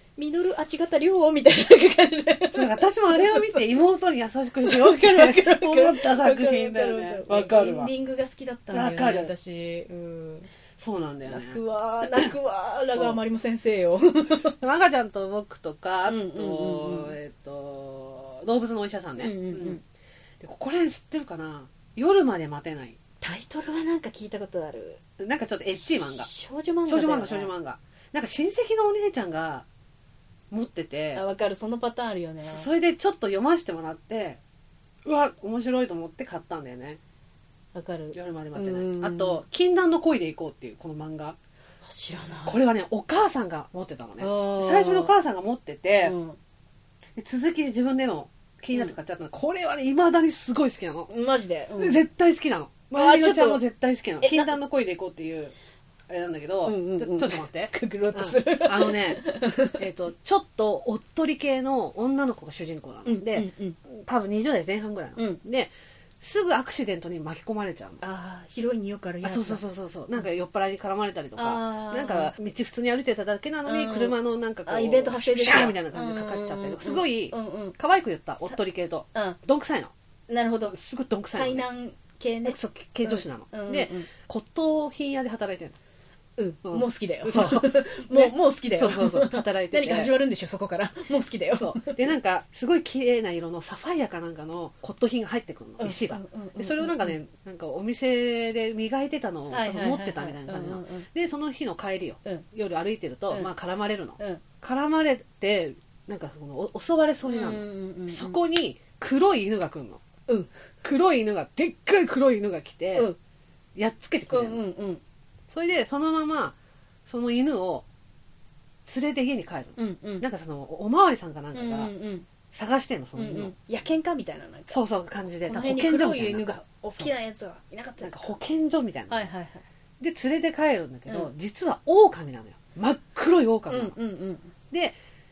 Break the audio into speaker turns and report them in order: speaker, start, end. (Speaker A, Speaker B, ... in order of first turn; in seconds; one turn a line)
Speaker A: 0.2-3.6
Speaker B: 2.5-7.9
Speaker A: 4.6-10.5
Speaker B: 8.7-9.3
Speaker B: 10.8-11.6
Speaker A: 11.2-14.5
Speaker B: 12.9-13.2
Speaker B: 14.6-19.8
Speaker A: 16.1-17.1
Speaker A: 19.2-19.8
Speaker B: 20.4-23.0
Speaker A: 23.2-25.0
Speaker B: 25.2-26.3
Speaker A: 25.8-27.5
Speaker B: 26.9-29.7
Speaker B: 30.5-31.2
Speaker A: 31.1-32.7
Speaker B: 32.4-34.4
Speaker B: 35.0-37.0
Speaker A: 37.7-39.4
Speaker B: 38.1-41.4
Speaker A: 41.8-42.6
Speaker B: 42.5-46.1
Speaker A: 44.2-45.1
Speaker A: 46.0-46.4
Speaker B: 47.2-51.1
Speaker A: 51.1-52.0
Speaker B: 51.8-55.5
Speaker A: 52.9-53.6
Speaker A: 54.2-54.5
Speaker B: 56.1-59.2
Speaker A: 56.6-59.8
Speaker B: 59.8-68.0
Speaker A: 63.0-63.8
Speaker A: 65.2-65.4
Speaker A: 68.0-69.6
Speaker B: 69.2-79.9
Speaker A: 71.4-72.3
Speaker A: 73.7-77.8
Speaker A: 80.3-80.8
Speaker B: 80.7-81.7
Speaker A: 81.3-84.1
Speaker B: 82.5-85.8
Speaker A: 86.4-92.0
Speaker B: 86.7-90.2
Speaker B: 91.5-110.0
Speaker A: 95.8-97.2
Speaker A: 99.5-101.1
Speaker A: 104.2-104.4
Speaker A: 107.3-108.4
Speaker B: 110.8-113.1
Speaker B: 113.8-114.6
Speaker A: 114.3-115.0
Speaker B: 115.5-116.5
Speaker B: 117.1-117.8
Speaker B: 118.9-121.9
Speaker A: 119.8-120.3
Speaker A: 121.5-122.3
Speaker B: 122.5-123.5
Speaker A: 123.2-124.8
Speaker B: 124.7-127.1
Speaker A: 125.4-128.4
Speaker B: 128.0-129.3
Speaker A: 129.1-129.7
Speaker B: 130.0-134.0
Speaker A: 133.7-134.5